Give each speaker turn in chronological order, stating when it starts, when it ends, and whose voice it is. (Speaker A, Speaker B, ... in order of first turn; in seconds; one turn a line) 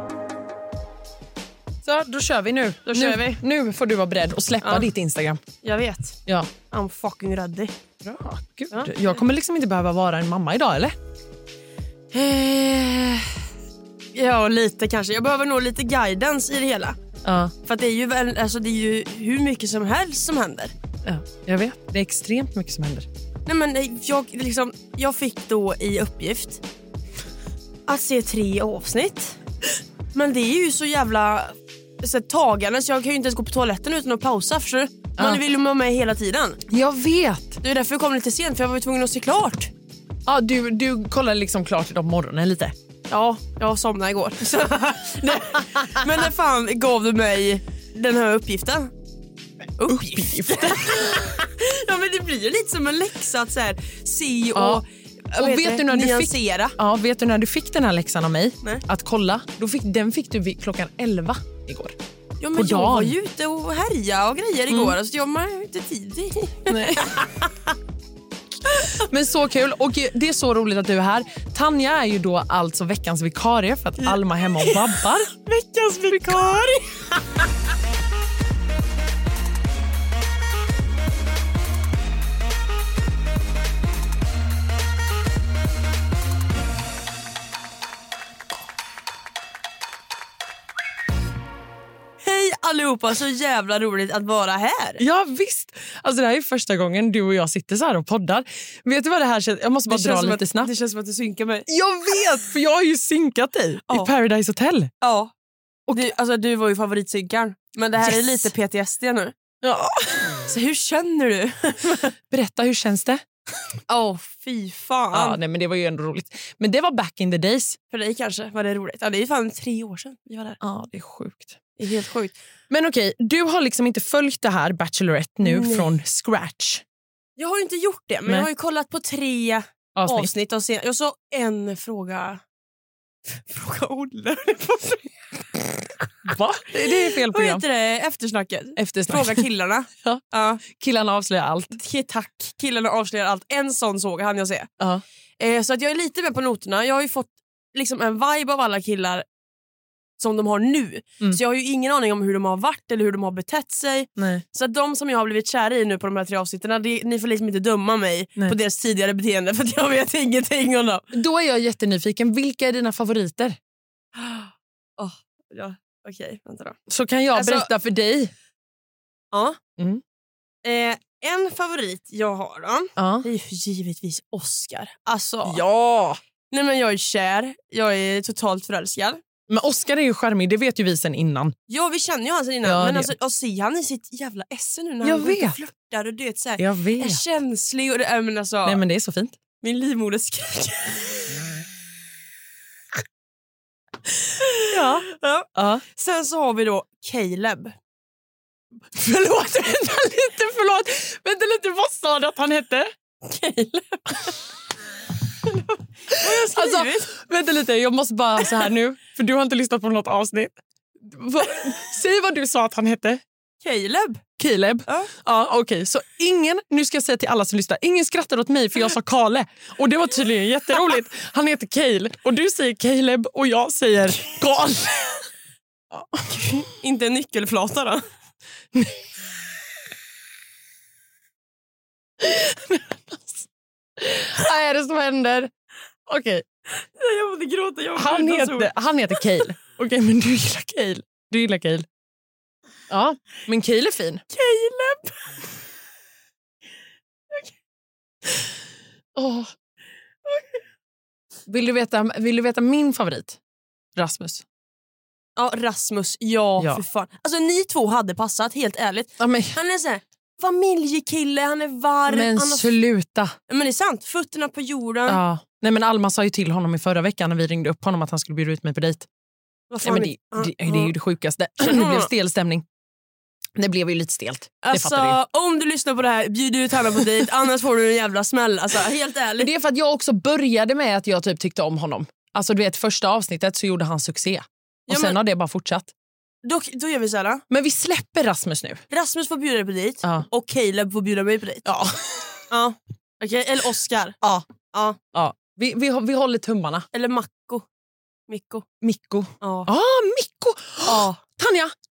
Speaker A: 1.8-5.4
Speaker B: 2.9-3.4
Speaker B: 4.6-4.9
Speaker B: 5.6-7.7
Speaker A: 8.0-10.9
Speaker B: 12.1-13.2
Speaker B: 14.2-17.0
Speaker A: 17.2-17.5
Speaker B: 17.6-20.7
Speaker A: 21.0-23.1
Speaker B: 23.5-26.6
Speaker B: 27.9-29.4
Speaker B: 30.1-36.6
Speaker A: 36.7-37.6
Speaker B: 37.6-39.7
Speaker A: 40.3-42.8
Speaker B: 43.1-48.9
Speaker B: 49.8-56.8
Speaker A: 49.9-51.1
Speaker A: 54.5-54.8
Speaker A: 55.4-62.0
Speaker B: 62.4-67.5
Speaker A: 62.5-63.2
Speaker A: 64.7-65.0
Speaker A: 66.7-67.3
Speaker A: 68.7-75.3
Speaker B: 74.0-77.1
Speaker A: 76.1-76.6
Speaker B: 92.2-95.0
Speaker A: 95.0-100.7
Speaker B: 99.9-101.7
Speaker A: 101.7-104.9
Speaker B: 105.0-105.3
Speaker B: 105.9-109.3
Speaker A: 108.0-108.5
Speaker A: 109.6-110.4
Speaker B: 110.5-112.1
Speaker A: 112.3-113.2
Speaker B: 113.9-115.4
Speaker A: 115.1-117.8
Speaker B: 117.9-120.6
Speaker A: 120.6-121.6
Speaker B: 121.8-122.3
Speaker A: 122.7-126.8
Speaker B: 125.4-125.9
Speaker B: 127.4-132.4
Speaker A: 129.9-130.3
Speaker B: 133.3-135.6
Speaker A: 136.2-137.6
Speaker B: 136.8-140.6
Speaker A: 138.8-139.5
Speaker A: 140.0-141.8
Speaker B: 141.7-144.7
Speaker B: 145.4-149.2
Speaker B: 150.2-161.1
Speaker A: 154.2-154.4
Speaker A: 161.1-163.6
Speaker B: 164.2-166.8
Speaker A: 166.9-168.3
Speaker B: 167.3-167.7
Speaker B: 169.3-169.6
Speaker A: 169.8-170.0
Speaker B: 170.6-175.6
Speaker A: 173.0-173.3
Speaker A: 175.4-176.2
Speaker B: 176.5-179.2
Speaker A: 179.5-181.6
Speaker B: 181.7-188.8
Speaker A: 182.6-183.1
Speaker A: 185.0-185.6
Speaker A: 186.6-187.2
Speaker A: 188.7-189.3
Speaker B: 189.6-191.4
Speaker B: 194.2-197.8
Speaker A: 194.7-195.8
Speaker A: 198.9-202.9
Speaker B: 203.2-204.4
Speaker B: 205.5-207.1
Speaker A: 206.1-213.2
Speaker B: 213.6-214.2
Speaker A: 214.4-225.2
Speaker B: 214.9-215.1
Speaker A: 225.9-226.5
Speaker B: 226.3-228.0
Speaker A: 228.7-229.1
Speaker A: 232.2-235.5
Speaker A: 236.1-236.4
Speaker B: 236.8-239.4
Speaker A: 238.0-241.9
Speaker A: 242.9-244.2
Speaker B: 244.3-245.5
Speaker A: 249.2-249.5
Speaker A: 251.5-253.4
Speaker A: 254.0-254.4
Speaker B: 255.4-262.7
Speaker A: 259.2-259.6
Speaker A: 262.1-263.4
Speaker B: 263.5-265.2
Speaker A: 265.1-269.1
Speaker B: 269.7-270.9
Speaker A: 269.8-272.6
Speaker B: 271.6-272.1
Speaker A: 273.6-275.2
Speaker B: 274.6-279.5
Speaker A: 279.4-285.9
Speaker B: 284.9-285.2
Speaker B: 286.4-287.4
Speaker A: 287.5-288.8
Speaker B: 288.9-291.7
Speaker A: 291.6-292.4
Speaker B: 292.5-295.0
Speaker A: 295.1-296.9
Speaker B: 296.9-297.6
Speaker B: 298.3-298.6
Speaker A: 298.8-301.7
Speaker B: 299.4-299.7
Speaker B: 300.9-301.2